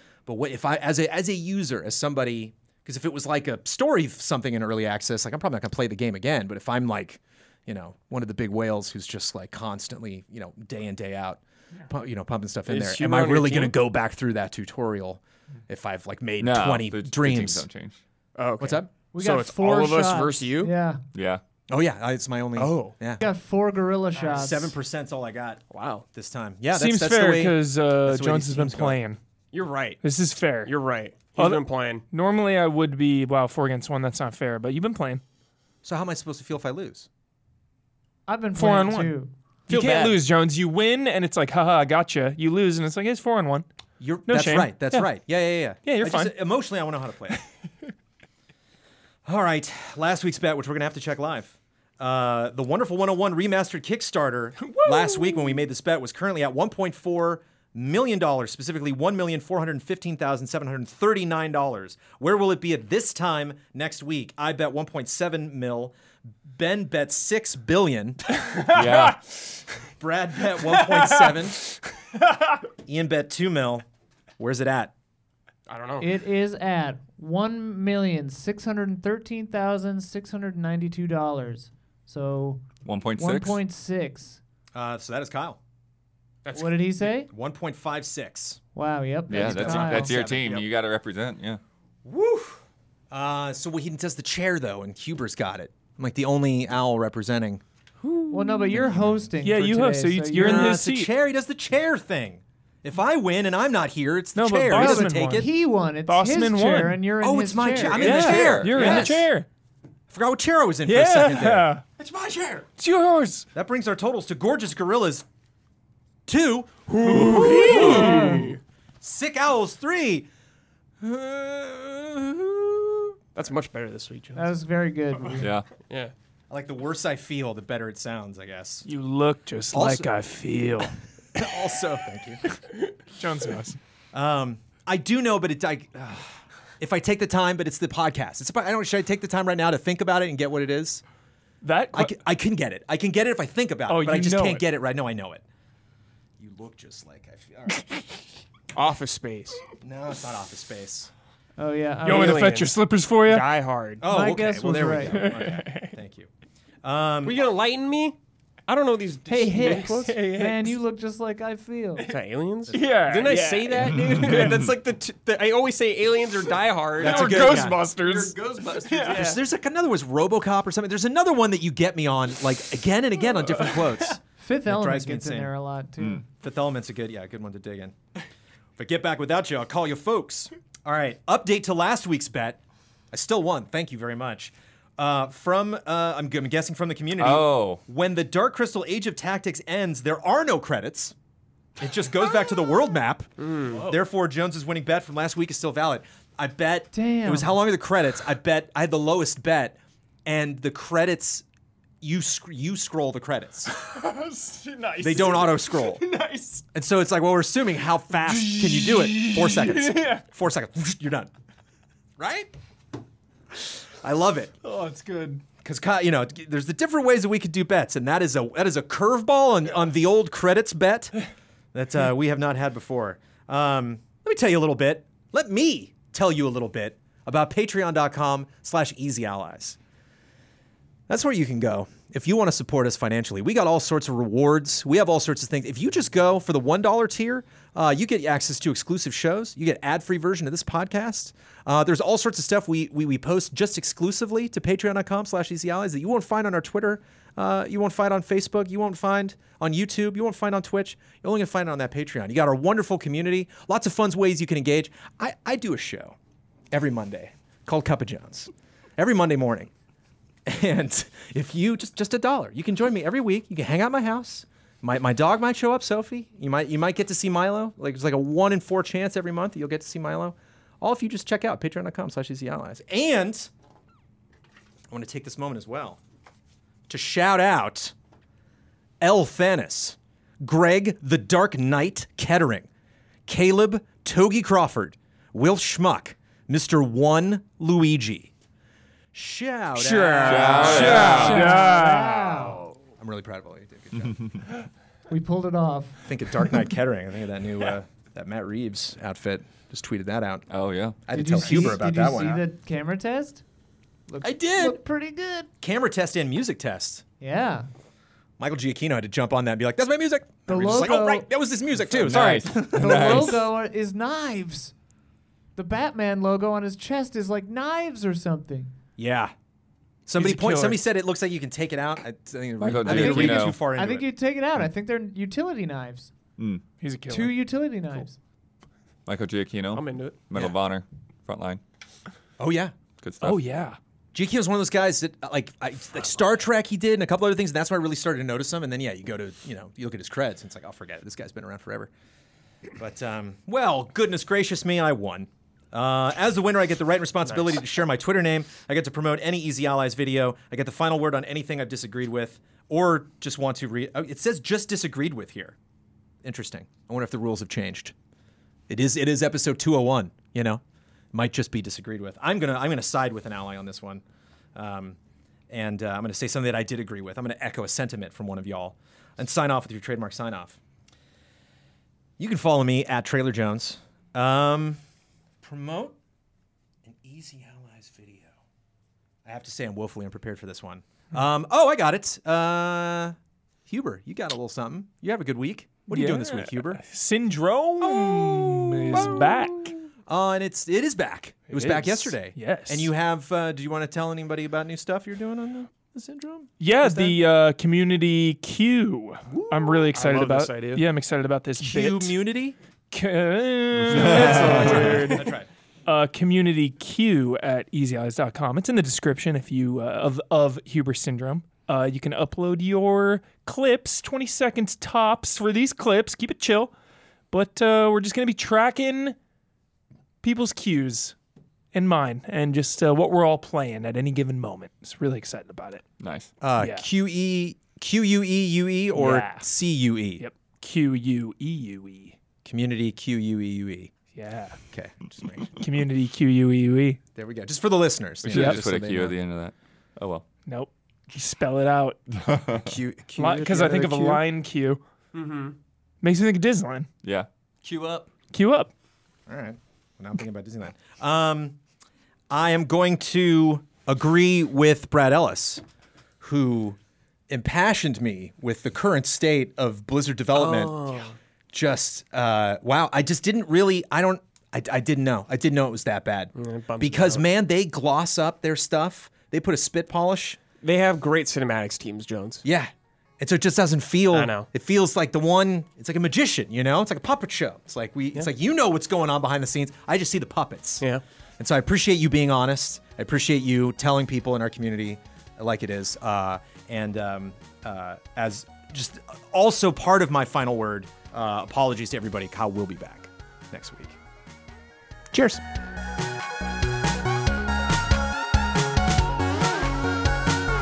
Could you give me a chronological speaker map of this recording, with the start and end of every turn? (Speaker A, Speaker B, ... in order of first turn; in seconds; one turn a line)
Speaker A: 0.2-17.6
Speaker B: 12.7-13.8
Speaker C: 16.4-18.0
Speaker B: 18.3-20.7
Speaker A: 18.6-18.9
Speaker D: 19.1-21.0
Speaker C: 21.1-21.4
Speaker A: 21.7-23.2
Speaker B: 22.6-22.9
Speaker D: 23.2-24.7
Speaker A: 24.3-29.0
Speaker B: 25.7-26.0
Speaker E: 26.7-29.2
Speaker B: 29.5-30.0
Speaker E: 30.0-30.7
Speaker B: 30.6-32.0
Speaker E: 31.3-35.2
Speaker A: 35.8-37.1
Speaker D: 38.3-39.3
Speaker E: 38.5-39.1
Speaker B: 39.7-40.2
Speaker E: 39.7-43.6
Speaker A: 44.0-47.4
Speaker E: 44.3-45.1
Speaker E: 45.8-46.3
Speaker A: 49.2-65.9
Speaker E: 54.6-55.5
Speaker A: 66.5-68.4
Speaker E: 68.3-69.3
Speaker C: 68.6-69.2
Speaker A: 70.0-71.8
Speaker E: 70.6-71.4
Speaker E: 72.1-72.6
Speaker A: 72.8-73.8
Speaker A: 74.4-74.9
Speaker B: 75.7-76.1
Speaker D: 76.0-82.6
Speaker C: 82.8-83.6
Speaker D: 83.2-84.4
Speaker A: 84.7-85.6
Speaker B: 86.4-87.1
Speaker D: 86.5-87.3
Speaker A: 87.3-88.6
Speaker D: 88.7-90.2
Speaker C: 89.3-91.6
Speaker A: 89.3-90.7
Speaker A: 92.0-97.6
Speaker E: 98.1-98.8
Speaker D: 98.3-100.8
Speaker A: 98.7-99.3
Speaker E: 99.4-101.1
Speaker A: 100.3-105.5
Speaker E: 104.3-105.5
Speaker D: 104.7-108.2
Speaker E: 106.0-107.0
Speaker A: 107.2-109.3
Speaker C: 107.8-109.2
Speaker E: 107.9-109.5
Speaker A: 110.1-112.7
Speaker E: 110.8-111.8
Speaker E: 112.8-113.5
Speaker A: 113.5-115.2
Speaker A: 116.3-120.3
Speaker B: 116.9-118.6
Speaker E: 117.0-118.6
Speaker D: 117.7-118.5
Speaker A: 121.0-123.2
Speaker B: 123.3-124.5
Speaker D: 124.3-125.5
Speaker C: 125.4-125.6
Speaker B: 125.8-126.1
Speaker A: 126.5-128.8
Speaker E: 128.8-131.0
Speaker A: 129.7-130.1
Speaker A: 131.3-132.4
Speaker E: 133.1-133.8
Speaker A: 134.1-141.0
Speaker E: 141.6-142.1
Speaker A: 141.9-145.4
Speaker E: 143.9-144.6
Speaker A: 146.4-148.0
Speaker B: 148.7-149.6
Speaker A: 149.8-151.1
Speaker D: 151.6-152.7
Speaker E: 152.0-153.5
Speaker B: 152.1-154.0
Speaker A: 154.0-156.3
Speaker D: 154.0-155.4
Speaker E: 155.2-155.9
Speaker A: 156.8-157.5
Speaker B: 157.2-160.7
Speaker D: 159.3-162.1
Speaker E: 159.6-159.9
Speaker B: 162.1-169.4
Speaker A: 162.7-163.5
Speaker E: 162.7-164.6
Speaker C: 164.1-164.5
Speaker E: 167.0-169.4
Speaker A: 167.0-175.5
Speaker D: 174.4-176.2
Speaker A: 176.4-177.9
Speaker A: 178.8-182.6
Speaker A: 183.1-191.1
Speaker C: 187.2-187.8
Speaker A: 191.8-201.4
Speaker B: 193.4-193.8
Speaker D: 196.9-197.5
Speaker A: 202.0-203.8
Speaker E: 203.7-206.6
Speaker A: 205.0-206.0
Speaker A: 206.7-211.3
Speaker E: 208.2-210.2
Speaker A: 212.2-212.6
Speaker A: 213.5-214.6
Speaker E: 214.6-215.4
Speaker A: 215.6-221.2
Speaker A: 221.7-229.8
Speaker A: 231.1-256.1
Speaker A: 256.7-259.7
Speaker A: 260.4-273.5
Speaker A: 274.9-276.0
Speaker A: 276.9-277.9
Speaker A: 279.0-282.7
Speaker A: 283.3-288.3
Speaker A: 289.1-291.6
Speaker E: 289.7-292.4
Speaker C: 290.2-291.6
Speaker D: 290.7-292.6
Speaker A: 292.9-294.3
Speaker D: 295.1-296.0
Speaker A: 296.0-300.5
Speaker C: 300.5-301.7
Speaker A: 301.0-302.4
Speaker D: 301.1-303.4
Speaker D: 304.1-305.5
Speaker A: 304.2-304.8
Speaker A: 305.6-307.0
Speaker D: 307.2-307.7
Speaker A: 308.4-313.3
Speaker D: 310.5-311.3
Speaker C: 311.9-313.4
Speaker D: 312.1-314.7
Speaker D: 315.6-318.7
Speaker A: 319.0-319.3
Speaker A: 320.1-324.1
Speaker E: 320.1-320.8
Speaker C: 322.6-323.6
Speaker D: 322.8-326.1
Speaker C: 326.4-326.6
Speaker E: 326.8-327.3
Speaker D: 327.1-328.2
Speaker C: 329.1-331.6
Speaker B: 329.7-330.2
Speaker A: 332.4-332.7
Speaker C: 333.0-333.4
Speaker E: 333.2-333.8
Speaker A: 334.1-341.9
Speaker A: 342.8-355.6
Speaker A: 356.2-357.9
Speaker A: 358.7-360.6
Speaker A: 361.1-364.0
Speaker A: 364.5-365.0
Speaker A: 365.5-370.6
Speaker A: 372.2-374.8
Speaker A: 375.4-375.9
Speaker A: 376.8-378.3
Speaker A: 379.2-383.1
Speaker A: 383.7-386.8
Speaker E: 385.9-389.7
Speaker A: 387.8-389.5
Speaker A: 390.1-397.2
Speaker E: 391.5-392.9
Speaker E: 396.6-402.1
Speaker A: 399.3-399.9
Speaker B: 399.9-400.9
Speaker A: 401.6-402.6
Speaker E: 402.9-405.2
Speaker B: 403.9-405.3
Speaker C: 403.9-404.9
Speaker A: 405.1-405.5
Speaker E: 405.9-416.7
Speaker E: 417.3-419.1
Speaker E: 420.2-421.1
Speaker E: 421.7-425.8
Speaker C: 426.0-426.3
Speaker A: 426.4-430.2
Speaker E: 426.6-426.9
Speaker E: 428.9-429.5
Speaker E: 430.2-432.2
Speaker A: 432.4-433.9
Speaker E: 434.1-434.6
Speaker A: 434.7-435.6
Speaker E: 435.5-437.0
Speaker A: 437.1-439.2
Speaker C: 438.2-440.2
Speaker E: 438.3-438.6
Speaker E: 440.4-442.0
Speaker C: 442.1-442.8
Speaker A: 442.6-444.1
Speaker B: 443.2-444.2
Speaker E: 443.2-444.8
Speaker B: 445.1-445.6
Speaker E: 446.0-446.9
Speaker A: 447.6-448.1
Speaker E: 448.3-448.7
Speaker A: 449.3-451.6
Speaker A: 452.3-455.6
Speaker A: 456.2-456.8
Speaker A: 457.3-461.0
Speaker B: 460.3-461.1
Speaker A: 461.5-470.4
Speaker B: 466.3-467.2
Speaker B: 470.6-472.4
Speaker A: 472.4-480.9
Speaker B: 474.1-474.5
Speaker A: 481.4-494.0
Speaker A: 495.1-495.4